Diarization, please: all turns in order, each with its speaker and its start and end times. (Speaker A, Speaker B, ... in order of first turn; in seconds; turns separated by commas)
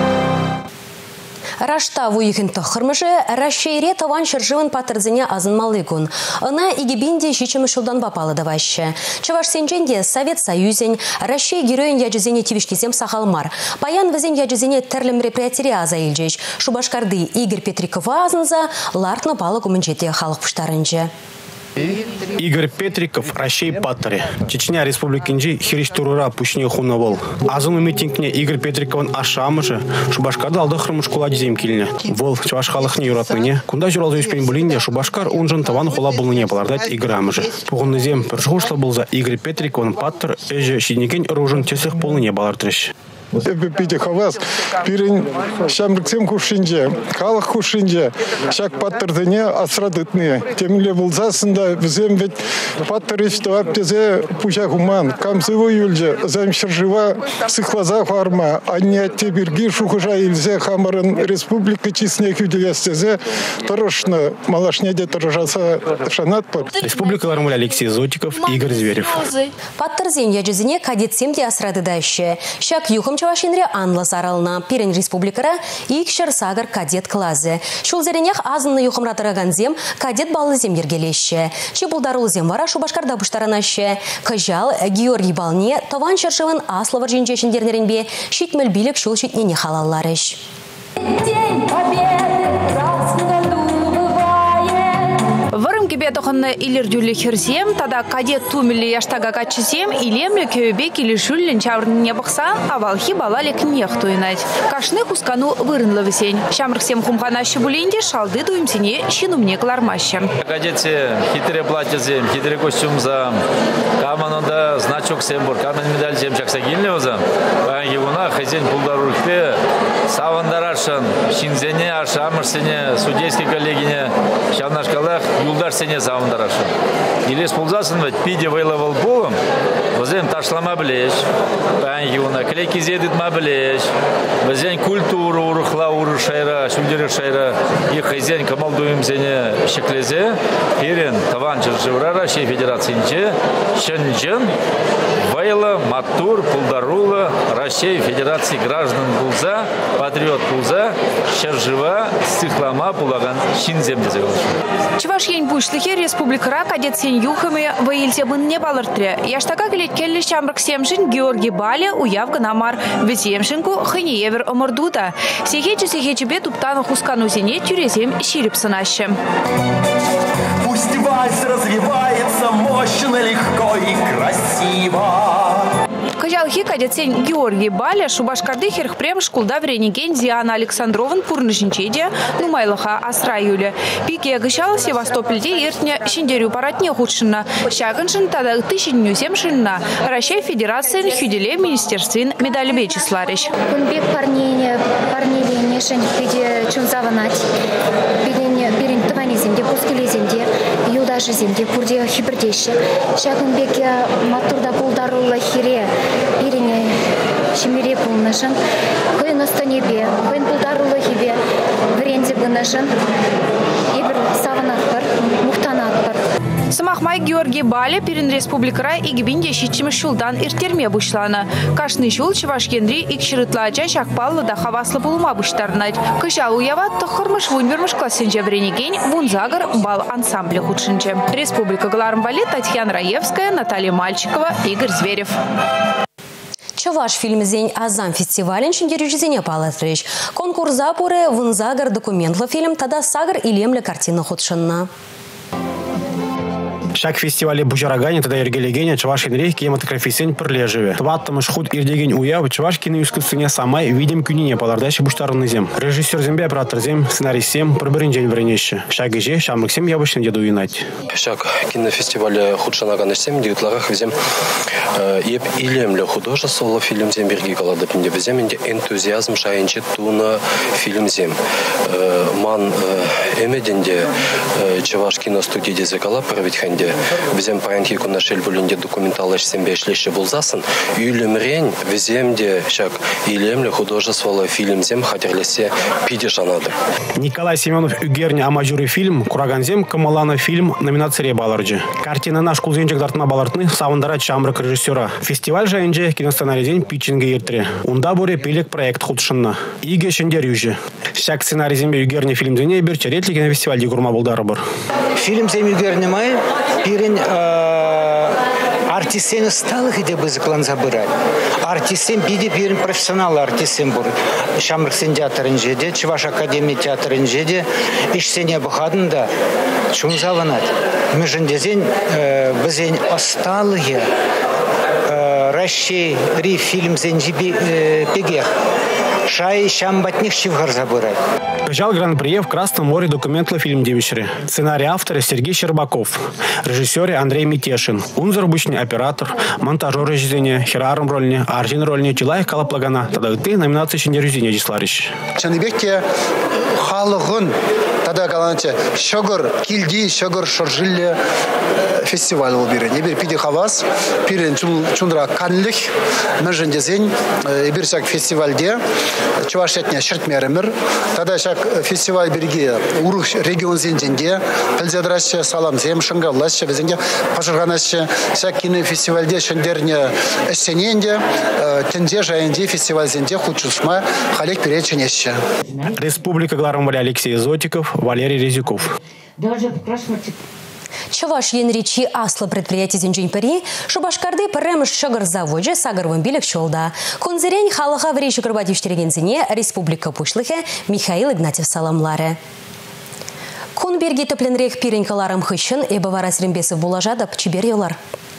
Speaker A: 1.6-21.1, Speaker B: 22.4-42.9, Speaker C: 43.4-66.8, Speaker B: 66.8-69.3, Speaker A: 69.8-90.4, Speaker D: 91.2-110.3, Speaker E: 110.4-113.4, Speaker E: 114.0-126.7, Speaker E: 127.3-129.4, Speaker E: 129.9-131.2, Speaker E: 131.8-133.9, Speaker E: 134.4-144.5, Speaker E: 145.3-154.6, Speaker D: 155.0-169.2, Speaker F: 170.7-175.4, Speaker D: 176.2-193.5, Speaker G: 193.7-197.5, Speaker G: 198.2-207.0, Speaker G: 207.5-208.6, Speaker G: 209.2-211.4, Speaker G: 211.9-213.0, Speaker G: 213.9-216.3, Speaker D: 216.7-235.4, Speaker A: 236.8-244.9, Speaker B: 246.9-260.9, Speaker H: 261.1-264.2, Speaker H: 265.0-271.4, Speaker H: 271.9-286.7, Speaker B: 287.2-304.6, Speaker I: 305.2-311.1, Speaker I: 311.6-319.3, Speaker I: 319.9-324.1, Speaker I: 325.1-328.5, Speaker I: 329.3-331.2, Speaker B: 331.7-345.2, Speaker J: 345.4-346.0, Speaker J: 346.8-347.5, Speaker J: 348.1-351.2, Speaker J: 352.0-355.9, Speaker J: 356.4-358.8, Speaker J: 359.4-375.4, Speaker B: 376.0-378.9, Speaker A: 381.1-392.4, Speaker A: 393.8-398.0